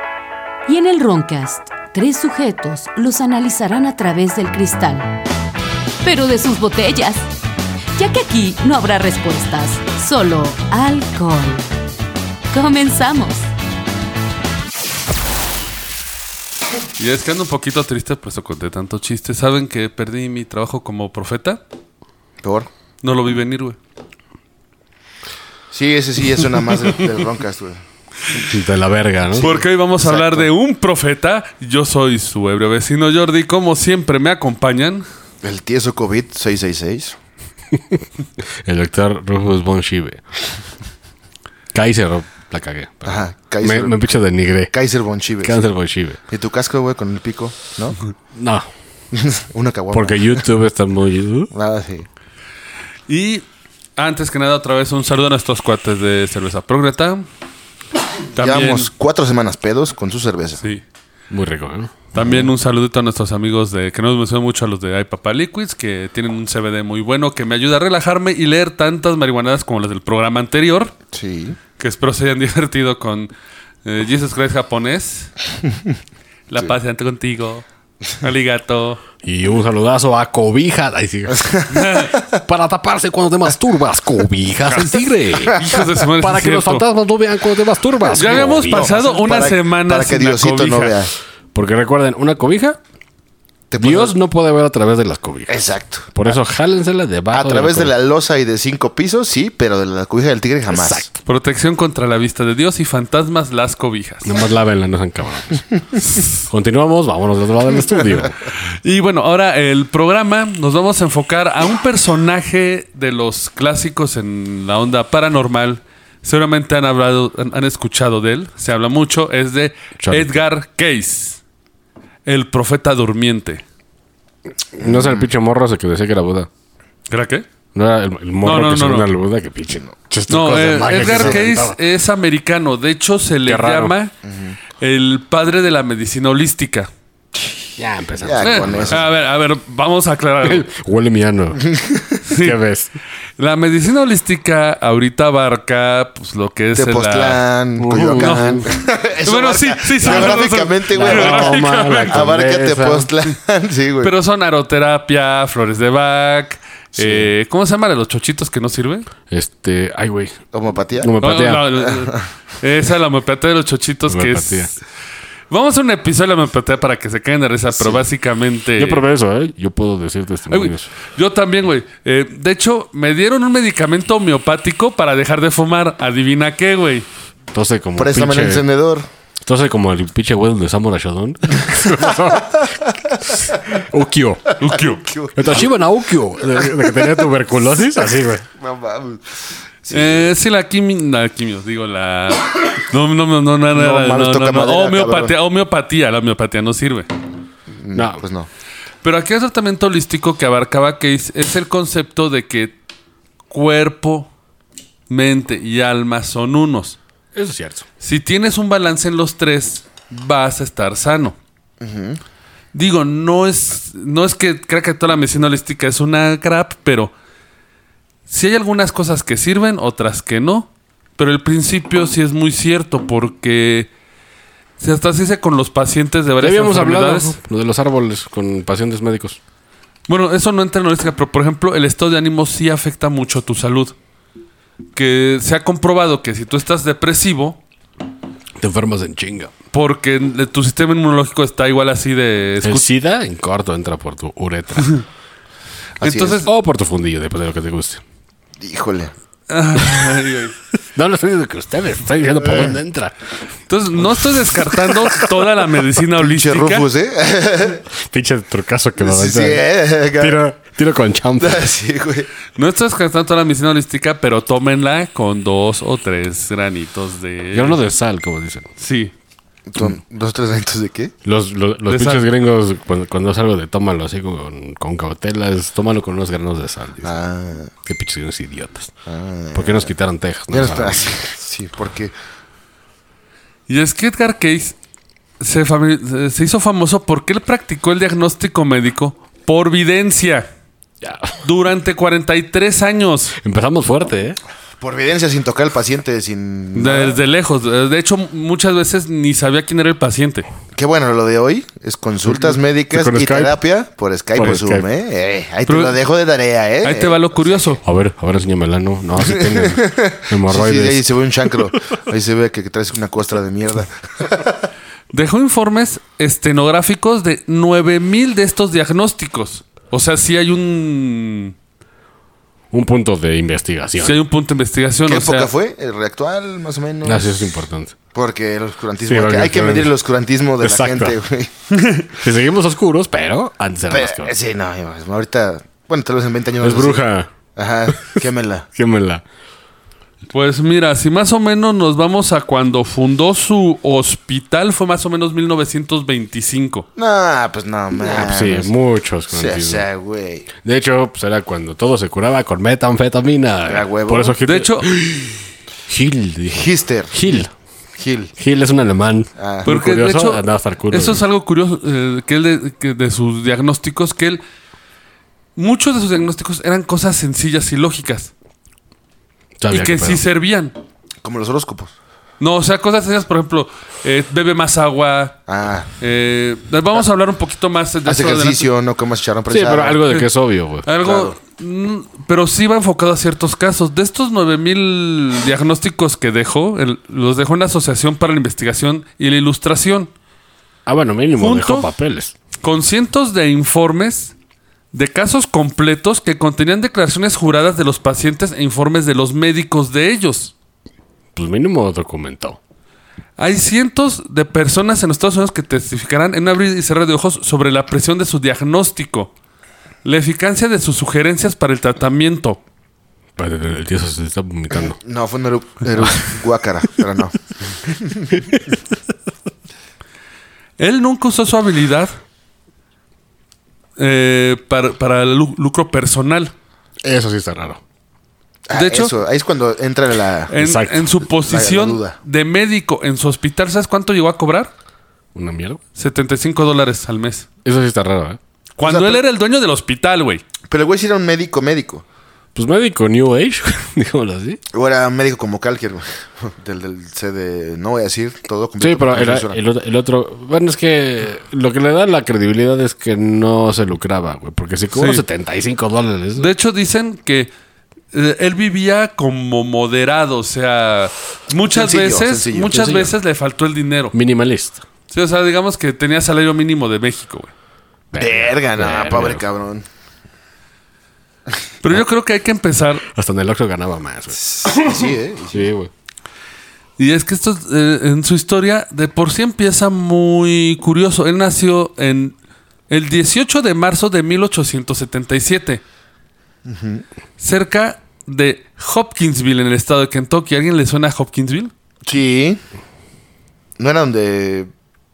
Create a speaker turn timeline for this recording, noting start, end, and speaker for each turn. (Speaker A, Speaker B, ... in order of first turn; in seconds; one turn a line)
Speaker A: 0.7-5.2
Speaker A: 6.0-7.3
Speaker A: 8.0-11.6
Speaker A: 12.5-13.5
Speaker B: 17.0-21.6
Speaker C: 22.4-22.7
Speaker B: 23.0-23.8
Speaker C: 25.7-27.8
Speaker D: 28.5-29.6
Speaker B: 29.4-35.1
Speaker C: 29.4-30.5
Speaker C: 35.4-37.2
Speaker D: 37.7-40.2
Speaker D: 41.7-44.7
Speaker C: 43.0-44.0
Speaker C: 44.7-45.6
Speaker D: 45.4-46.2
Speaker C: 46.3-48.0
Speaker D: 48.3-48.7
Speaker C: 49.1-50.4
Speaker D: 49.9-51.5
Speaker C: 51.5-52.1
Speaker B: 53.1-53.5
Speaker B: 54.0-57.3
Speaker B: 58.3-58.9
Speaker C: 58.4-60.6
Speaker D: 61.3-62.1
Speaker B: 62.1-70.9
Speaker C: 62.2-62.5
Speaker C: 71.1-71.6
Speaker B: 71.8-73.3
Speaker B: 73.8-75.3
Speaker B: 76.5-77.7
Speaker B: 78.2-79.0
Speaker D: 79.2-81.7
Speaker C: 81.4-82.1
Speaker B: 81.7-82.2
Speaker D: 82.3-89.0
Speaker C: 85.5-85.8
Speaker B: 85.5-86.9
Speaker B: 88.1-91.0
Speaker C: 88.1-91.1
Speaker D: 91.5-92.8
Speaker C: 93.7-94.1
Speaker D: 93.8-97.9
Speaker C: 95.5-96.1
Speaker C: 97.3-101.1
Speaker D: 100.7-101.1
Speaker B: 101.2-104.3
Speaker D: 104.2-105.7
Speaker D: 106.4-108.4
Speaker B: 108.6-121.4
Speaker D: 120.0-120.4
Speaker B: 122.3-123.6
Speaker D: 124.7-126.5
Speaker C: 124.8-125.3
Speaker B: 127.1-127.5
Speaker D: 127.7-131.8
Speaker B: 128.4-129.1
Speaker B: 130.3-134.1
Speaker C: 130.9-131.4
Speaker D: 133.5-133.9
Speaker C: 134.2-134.6
Speaker B: 134.8-136.9
Speaker D: 137.8-139.1
Speaker C: 138.2-139.1
Speaker B: 138.4-140.7
Speaker D: 140.4-141.7
Speaker C: 141.7-142.2
Speaker B: 142.3-142.6
Speaker D: 142.3-142.9
Speaker B: 143.4-147.4
Speaker C: 146.8-154.1
Speaker D: 147.8-148.7
Speaker B: 148.2-148.7
Speaker B: 149.2-152.2
Speaker D: 150.0-153.1
Speaker B: 154.0-159.1
Speaker D: 159.3-160.4
Speaker C: 160.5-161.1
Speaker D: 161.0-161.7
Speaker B: 161.2-164.8
Speaker C: 161.8-162.3
Speaker D: 164.1-164.7
Speaker B: 165.5-169.0
Speaker C: 167.8-168.0
Speaker D: 168.8-170.9
Speaker B: 170.5-177.1
Speaker D: 177.5-178.6
Speaker C: 178.0-179.1
Speaker D: 179.4-184.6
Speaker C: 182.0-182.4
Speaker B: 184.6-185.1
Speaker C: 184.6-185.7
Speaker D: 185.3-188.4
Speaker C: 186.4-187.0
Speaker C: 188.6-190.3
Speaker B: 189.9-197.1
Speaker C: 193.7-195.3
Speaker C: 197.7-198.5
Speaker D: 197.9-198.2
Speaker B: 199.0-202.7
Speaker B: 203.5-204.3
Speaker B: 205.1-207.0
Speaker D: 207.3-207.8
Speaker B: 208.0-211.4
Speaker C: 211.8-212.2
Speaker B: 212.7-217.1
Speaker B: 218.3-223.9
Speaker B: 224.8-227.3
Speaker D: 226.4-229.4
Speaker B: 230.1-233.9
Speaker B: 234.9-237.6
Speaker D: 238.6-239.5
Speaker B: 239.7-242.9
Speaker D: 242.6-245.0
Speaker C: 246.0-246.5
Speaker B: 246.0-246.5
Speaker D: 246.4-248.0
Speaker C: 248.6-249.1
Speaker B: 249.5-250.6
Speaker D: 250.9-253.2
Speaker C: 252.4-252.8
Speaker B: 253.7-256.9
Speaker D: 254.0-255.1
Speaker C: 256.1-257.9
Speaker D: 257.9-261.7
Speaker C: 259.0-260.4
Speaker C: 261.4-262.3
Speaker B: 262.6-267.8
Speaker D: 267.5-268.7
Speaker B: 268.8-269.1
Speaker C: 269.7-271.1
Speaker D: 271.2-277.1
Speaker B: 271.9-272.2
Speaker C: 277.0-277.7
Speaker D: 277.9-278.9
Speaker C: 279.1-279.9
Speaker D: 279.5-281.1
Speaker C: 280.5-282.1
Speaker B: 283.7-284.8
Speaker B: 285.4-290.5
Speaker D: 291.0-291.4
Speaker B: 291.4-293.4
Speaker D: 293.4-294.4
Speaker C: 294.8-297.2
Speaker B: 296.8-300.5
Speaker C: 300.8-307.6
Speaker D: 302.3-303.6
Speaker D: 304.4-304.9
Speaker B: 305.7-306.0
Speaker B: 306.8-307.8
Speaker D: 307.8-311.1
Speaker C: 309.2-314.6
Speaker B: 315.1-321.6
Speaker D: 322.7-324.2
Speaker B: 324.0-325.5
Speaker C: 325.1-327.5
Speaker D: 327.0-328.0
Speaker C: 328.1-331.5
Speaker D: 329.1-329.9
Speaker D: 330.6-331.2
Speaker B: 331.8-332.0
Speaker D: 332.2-334.3
Speaker C: 333.9-337.0
Speaker D: 336.6-337.3
Speaker C: 337.6-338.7
Speaker D: 338.0-338.2
Speaker D: 338.8-339.2
Speaker B: 340.3-346.9
Speaker C: 347.0-348.7
Speaker D: 348.0-349.9
Speaker C: 349.3-350.5
Speaker D: 350.5-357.5
Speaker C: 353.7-354.4
Speaker B: 354.4-354.9
Speaker C: 356.5-358.3
Speaker D: 358.4-361.2
Speaker C: 359.4-359.7
Speaker B: 359.6-364.4
Speaker B: 365.6-368.3
Speaker D: 369.6-370.2
Speaker B: 369.7-370.8
Speaker C: 371.2-371.9
Speaker B: 372.4-375.4
Speaker C: 375.5-375.9
Speaker B: 376.0-378.7
Speaker C: 378.1-380.1
Speaker D: 379.5-380.9
Speaker B: 380.9-390.1
Speaker C: 381.0-381.4
Speaker D: 390.9-392.4
Speaker B: 391.4-391.9
Speaker B: 392.6-394.4
Speaker B: 394.9-400.5
Speaker D: 401.4-402.6
Speaker B: 403.4-409.3
Speaker B: 410.0-412.6
Speaker D: 413.4-415.0
Speaker C: 414.7-418.4
Speaker B: 420.8-422.1
Speaker B: 424.0-426.5
Speaker D: 427.0-427.8
Speaker C: 428.7-430.5
Speaker B: 428.7-429.1
Speaker B: 430.5-434.7
Speaker D: 430.6-431.2
Speaker C: 431.4-432.2
Speaker D: 435.3-435.8
Speaker B: 436.0-437.5
Speaker D: 437.6-438.4
Speaker B: 438.8-440.4
Speaker C: 438.9-439.2
Speaker C: 440.7-442.0
Speaker D: 442.6-444.6
Speaker C: 444.7-449.6
Speaker D: 448.8-456.5
Speaker B: 454.9-455.2
Speaker B: 456.4-457.5
Speaker B: 458.1-464.1
Speaker C: 461.7-462.8
Speaker D: 462.7-463.2
Speaker D: 464.1-464.8
Speaker B: 465.1-467.5
Speaker D: 468.1-469.4
Speaker C: 468.2-469.9
Speaker B: 471.8-473.0
Speaker D: 473.1-475.9
Speaker C: 474.4-475.7
Speaker B: 477.0-482.4
Speaker B: 482.9-485.8
Speaker C: 486.7-487.0
Speaker B: 487.4-491.7
Speaker C: 492.1-492.6
Speaker C: 493.8-494.7